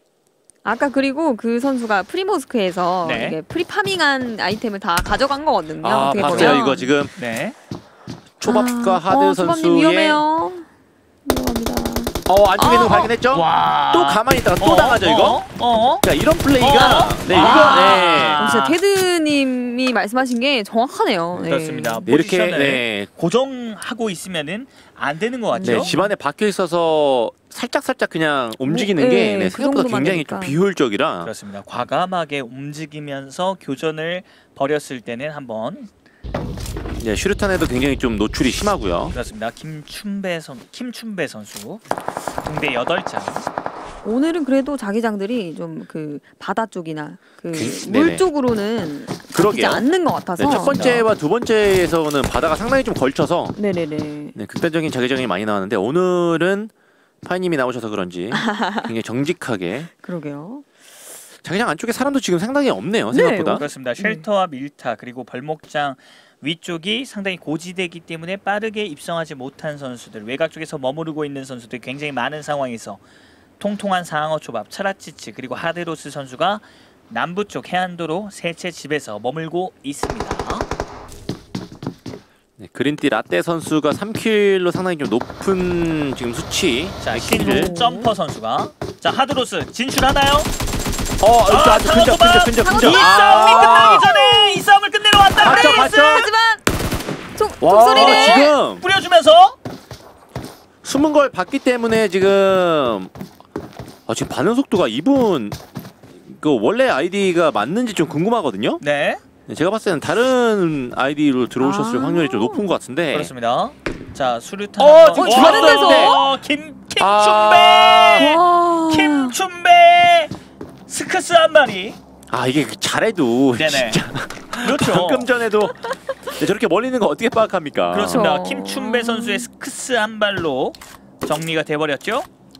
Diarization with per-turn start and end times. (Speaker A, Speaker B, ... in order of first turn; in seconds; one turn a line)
Speaker A: 0.6-6.9
Speaker B: 3.0-3.4
Speaker C: 5.8-7.1
Speaker B: 6.1-7.6
Speaker C: 8.4-10.2
Speaker A: 8.4-10.7
Speaker A: 11.2-13.1
Speaker C: 12.3-15.4
Speaker B: 13.3-16.1
Speaker C: 16.0-18.4
Speaker B: 16.6-18.8
Speaker A: 17.3-22.1
Speaker B: 21.4-25.9
Speaker C: 22.1-23.1
Speaker A: 25.5-26.1
Speaker C: 25.6-31.3
Speaker A: 28.6-30.6
Speaker B: 31.2-35.9
Speaker C: 37.0-39.1
Speaker B: 39.1-43.5
Speaker A: 44.0-51.0
Speaker C: 47.5-48.2
Speaker C: 49.3-53.6
Speaker B: 50.5-51.0
Speaker A: 53.5-54.4
Speaker C: 54.4-56.7
Speaker C: 57.2-59.9
Speaker A: 58.3-58.9
Speaker A: 59.9-60.6
Speaker C: 61.4-63.6
Speaker A: 63.1-64.2
Speaker B: 63.5-73.0
Speaker B: 73.6-80.7
Speaker C: 82.6-87.7
Speaker B: 87.0-90.5
Speaker A: 87.4-88.1
Speaker C: 91.2-94.1
Speaker B: 91.5-96.1
Speaker A: 92.6-94.7
Speaker A: 95.3-96.6
Speaker C: 95.4-96.3
Speaker A: 97.4-98.5
Speaker C: 97.6-98.8
Speaker B: 97.9-99.6
Speaker C: 100.8-103.1
Speaker C: 104.1-105.6
Speaker C: 106.2-108.8
Speaker B: 108.8-109.2
Speaker C: 109.5-113.3
Speaker A: 111.6-112.7
Speaker B: 113.1-118.3
Speaker C: 114.8-116.2
Speaker A: 115.1-116.3
Speaker C: 117.0-118.4
Speaker A: 118.2-119.3
Speaker B: 118.9-120.3
Speaker B: 120.9-122.0
Speaker C: 122.3-128.3
Speaker B: 123.6-124.0
Speaker B: 124.6-125.3
Speaker B: 127.9-132.3
Speaker A: 128.1-129.5